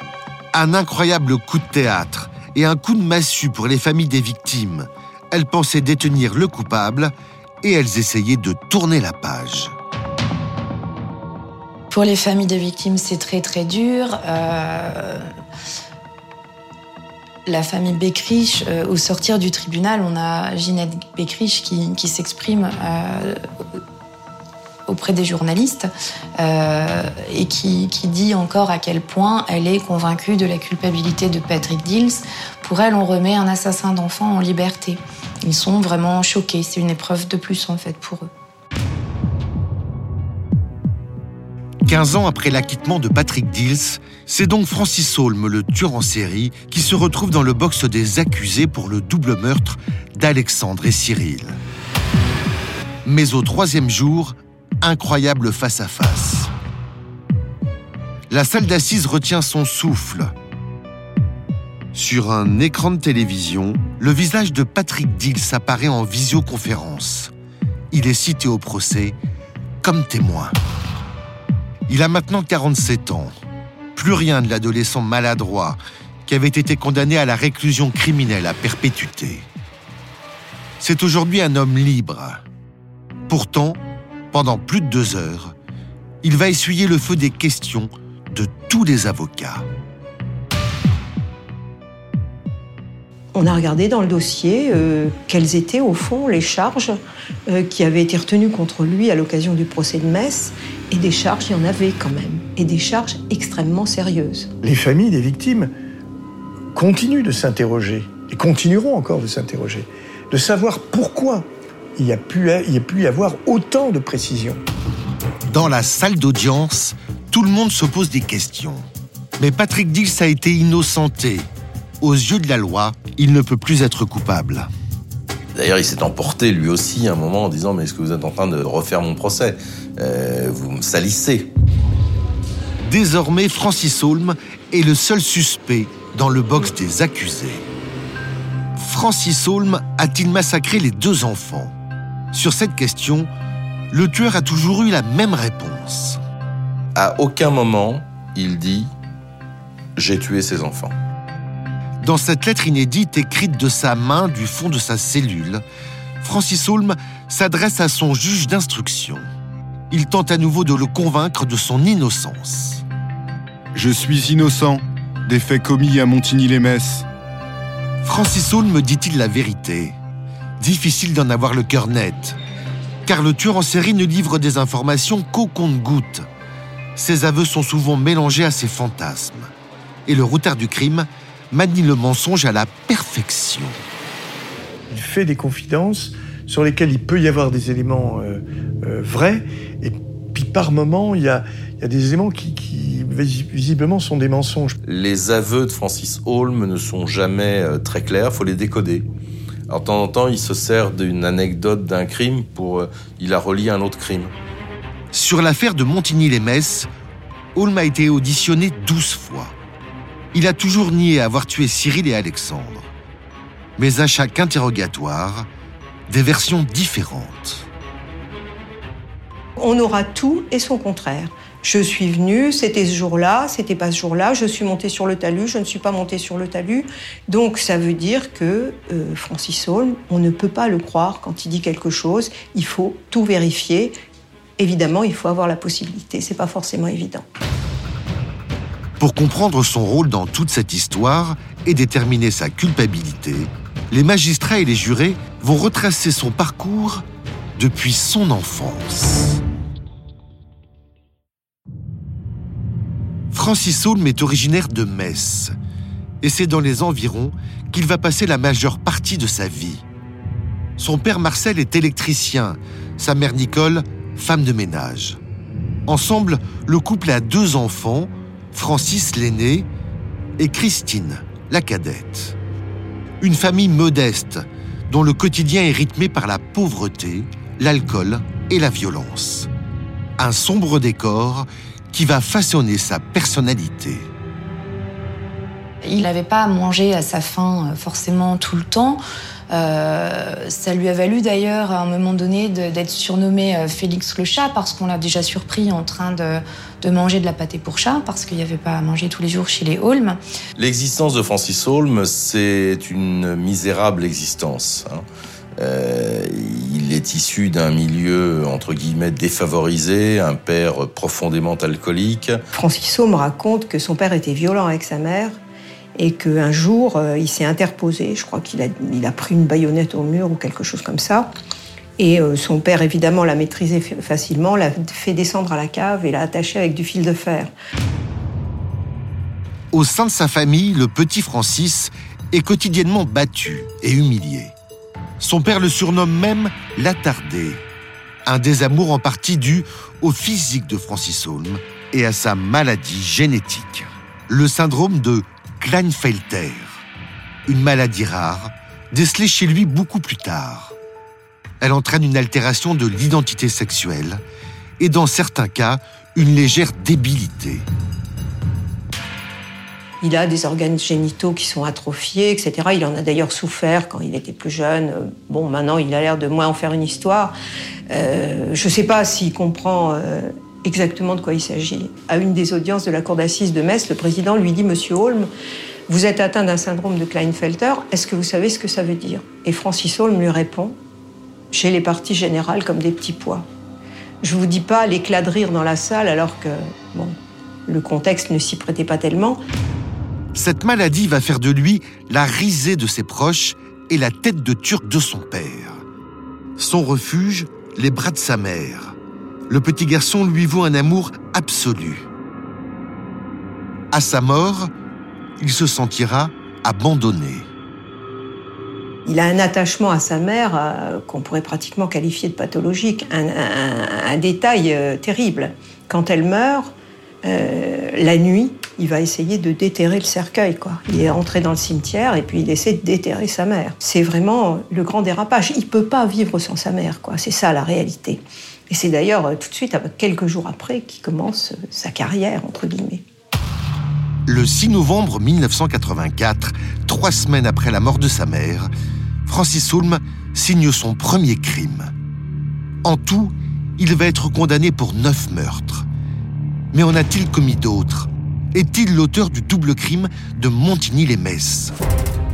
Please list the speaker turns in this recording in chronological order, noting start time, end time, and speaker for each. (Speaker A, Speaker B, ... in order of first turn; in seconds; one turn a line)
Speaker A: 0.5-9.7
Speaker B: 11.9-15.3
Speaker B: 17.5-23.4
Speaker B: 24.9-38.3
Speaker A: 41.9-51.6
Speaker A: 53.0-56.5
Speaker A: 58.3-60.3
Speaker A: 61.9-67.3
Speaker A: 67.9-69.2
Speaker A: 69.8-70.6
Speaker A: 71.9-73.3
Speaker A: 74.0-79.5
Speaker A: 80.8-82.4
Speaker A: 83.3-83.8
Speaker A: 84.3-85.5
Speaker A: 86.2-89.7
Speaker C: 93.3-104.5
Speaker D: 104.6-105.7
Speaker D: 106.7-114.6
Speaker A: 115.5-118.9
Speaker A: 119.4-121.5
Speaker A: 122.0-124.7
Speaker E: 125.5-131.5
Speaker A: 132.9-137.7
Speaker A: 138.8-141.7
Speaker A: 142.3-143.3
Speaker A: 143.9-146.2
Speaker E: 147.0-148.9
Speaker E: 150.0-150.9
Speaker A: 152.0-155.6
Speaker A: 156.2-159.2
Speaker A: 159.9-162.8
Speaker F: 163.8-167.1
Speaker A: 168.0-170.0
Speaker A: 170.6-172.4
Speaker A: 173.1-176.3
Speaker A: 177.0-179.5
Speaker A: 180.1-183.8
Speaker D: 184.9-194.8
Speaker E: 194.8-199.1
Speaker E: 199.7-204.3
Speaker A: 205.1-206.9
Speaker A: 207.6-209.6
Speaker A: 210.3-212.9
Speaker A: 213.8-215.5
Speaker A: 216.1-217.7
Speaker C: 219.6-233.9
Speaker C: 234.6-237.2
Speaker A: 239.0-247.1
Speaker A: 247.6-249.4
Speaker A: 253.3-255.5
Speaker A: 256.2-259.9
Speaker A: 260.8-265.2
Speaker A: 265.9-269.7
Speaker A: 270.4-272.4
Speaker A: 273.2-279.5
Speaker A: 280.2-284.1
Speaker B: 285.8-300.2
Speaker E: 300.6-305.0
Speaker E: 305.6-312.4
Speaker C: 312.5-315.4
Speaker C: 316.0-321.3
Speaker C: 322.0-327.5
Speaker A: 329.7-334.6
Speaker A: 335.2-337.6
Speaker A: 338.3-346.9
Speaker A: 347.5-350.8
Speaker A: 351.6-354.2
Speaker A: 354.8-357.7
Speaker C: 360.0-367.4
Speaker C: 367.9-375.3
Speaker C: 375.9-380.8
Speaker C: 381.5-383.5
Speaker C: 384.2-387.2
Speaker C: 387.7-389.4
Speaker A: 390.4-395.8
Speaker A: 396.6-399.0
Speaker A: 399.5-402.1
Speaker A: 403.9-404.7
Speaker A: 405.4-407.5
Speaker C: 409.1-433.0
Speaker A: 434.3-438.7
Speaker A: 439.2-441.9
Speaker A: 442.8-445.9
Speaker A: 446.7-451.8